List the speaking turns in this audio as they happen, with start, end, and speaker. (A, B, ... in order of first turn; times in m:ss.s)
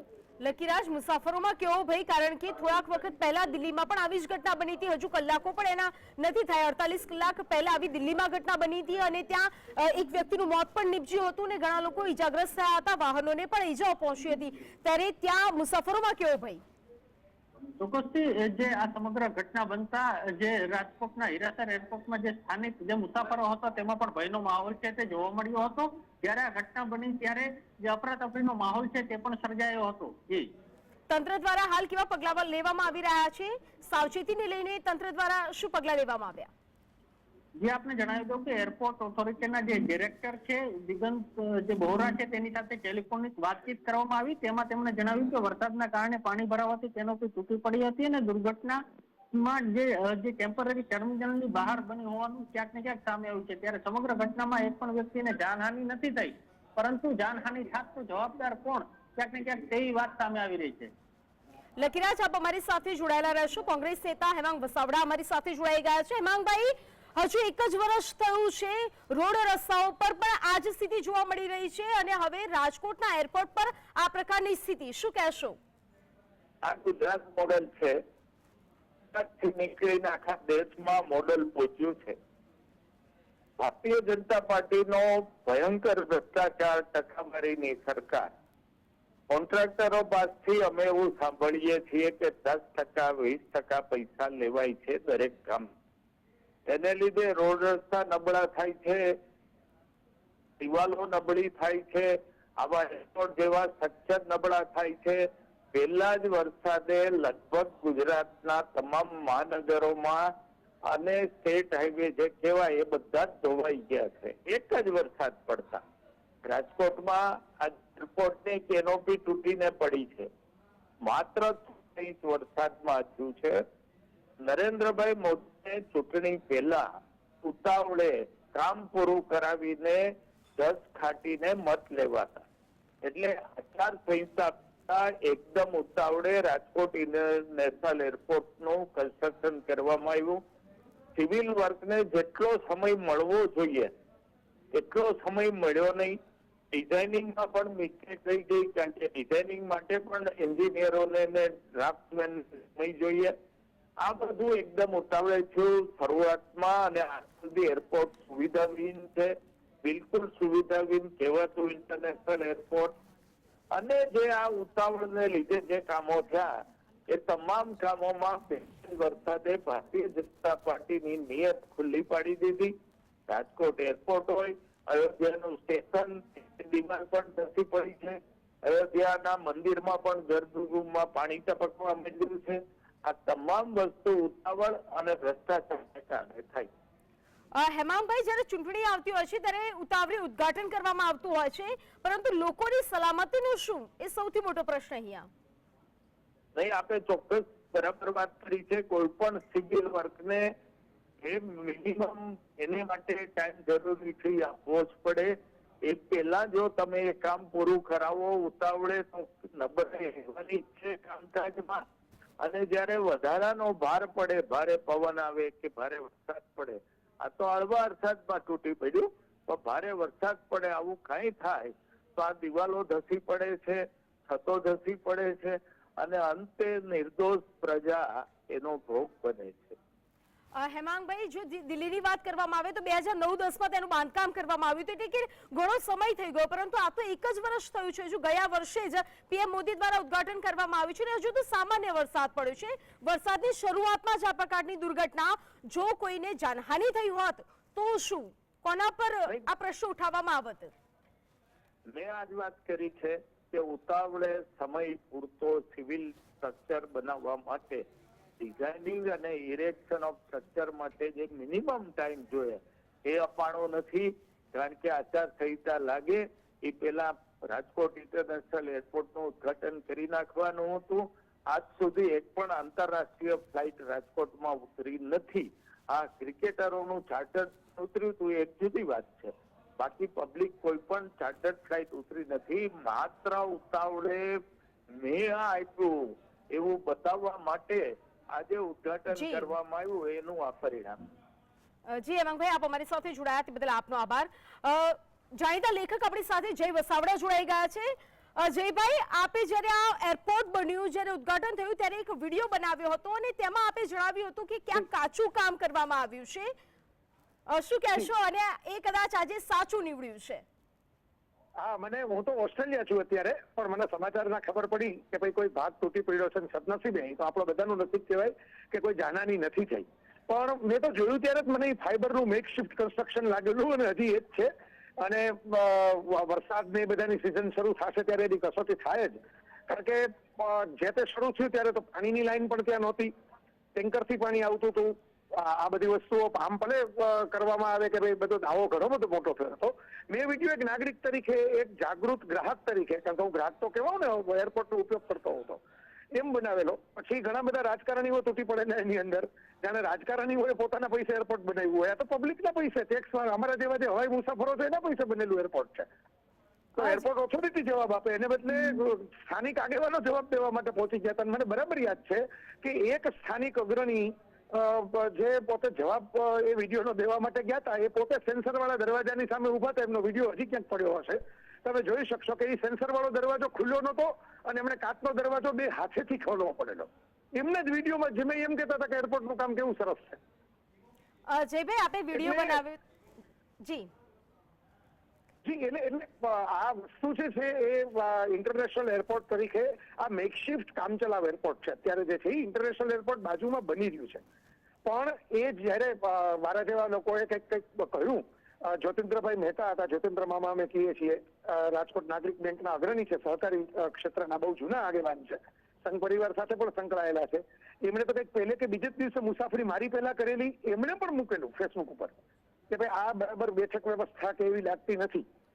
0:00.4-0:16.6 A
0:17.8-0:30.5 B
0:31.1-0:36.5 A
0:37.6-0:48.8 B
0:49.3-1:00.9 B
1:01.8-1:15.6 A
1:16.6-1:18.0 C
1:19.1-1:22.2 C
1:23.6-1:28.3 C
1:29.3-1:35.7 C
1:36.7-1:39.0 C
1:40.6-1:50.2 C
1:50.9-1:55.8 C
1:56.4-2:00.3 C
2:01.0-2:03.6 C
2:04.4-2:06.8 C
2:07.4-2:10.0 C
2:10.6-2:12.5 C
2:13.0-2:20.4 C
2:21.2-2:23.9 C
2:24.7-2:26.2 C
2:26.7-2:33.3 C
2:34.0-2:43.0 C
2:43.7-2:46.5 C
2:47.1-2:52.7 C
2:53.3-3:06.7 C
3:07.5-3:15.3 A
3:16.5-3:20.5 C
3:21.2-3:25.3 C
3:25.8-3:31.8 C
3:32.4-3:49.8 C
3:50.5-4:10.7 A
4:11.9-4:17.9 C
4:18.4-4:44.3 C
4:45.0-4:45.9 C
4:46.5-4:51.1 C
4:49.1-4:49.5 A
4:51.9-5:06.5 A
5:07.5-5:10.4 A
5:11.6-5:29.2 D
5:29.7-5:33.1 D
5:33.8-5:45.6 D
5:46.1-5:55.9 D
5:56.8-6:20.2 D
5:56.8-5:57.0 A
6:21.3-6:22.8 A
6:22.1-6:22.6 D
6:23.6-6:23.9 A
6:25.4-6:34.2 D
6:34.8-6:52.1 D
6:52.7-6:55.2 D